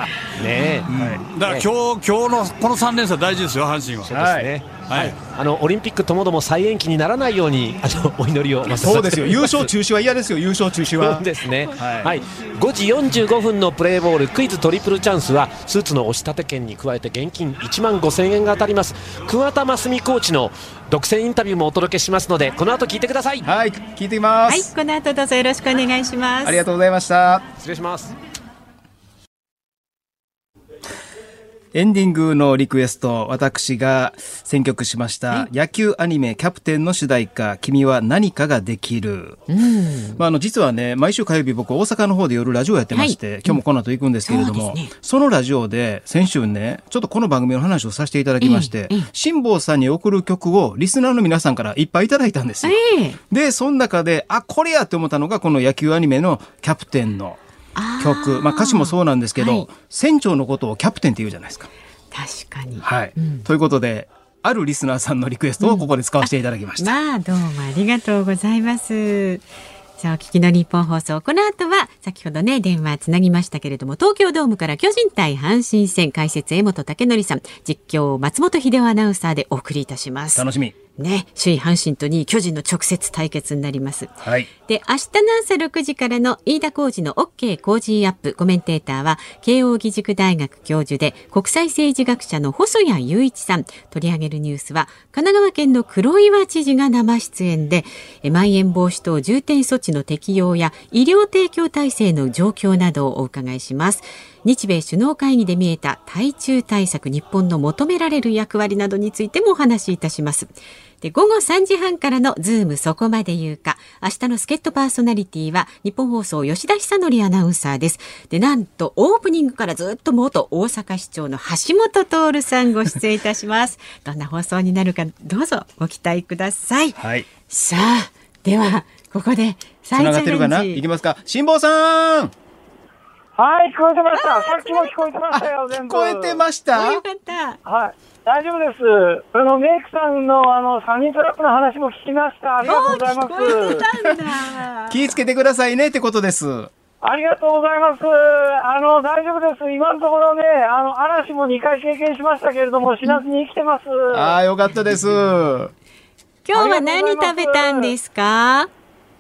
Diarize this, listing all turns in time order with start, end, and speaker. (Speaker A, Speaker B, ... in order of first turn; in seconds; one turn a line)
Speaker A: 0.4-0.9
Speaker B: 0.9-1.2
Speaker C: 0.9-4.2
Speaker A: 1.4-1.7
Speaker A: 4.1-9.7
Speaker B: 4.1-4.5
Speaker C: 4.8-5.2
Speaker B: 8.7-12.2
Speaker A: 11.0-23.5
Speaker B: 23.4-24.7
Speaker D: 24.5-26.6
Speaker B: 26.4-27.4
Speaker A: 27.6-28.1
Speaker B: 31.7-39.4
Speaker D: 39.5-40.2
Speaker B: 40.2-52.8
Speaker D: 42.9-43.6
Speaker D: 44.3-44.9
Speaker D: 48.4-49.1
Speaker D: 52.6-53.2
Speaker B: 53.3-57.4
Speaker D: 57.8-59.7
Speaker B: 58.0-61.7
Speaker D: 62.1-63.5
Speaker B: 62.8-67.0
Speaker D: 65.6-69.5
Speaker D: 70.0-110.5
Speaker B: 80.4-80.8
Speaker B: 84.2-84.5
Speaker D: 111.0-130.8
Speaker B: 127.0-127.3
Speaker B: 129.9-132.3
Speaker E: 133.4-136.4
Speaker D: 134.2-135.1
Speaker B: 135.3-137.0
Speaker D: 136.7-137.6
Speaker E: 137.7-143.9
Speaker D: 142.6-145.2
Speaker B: 144.9-146.7
Speaker E: 147.0-154.3
Speaker B: 154.1-155.7
Speaker D: 156.4-158.7
Speaker E: 156.5-157.9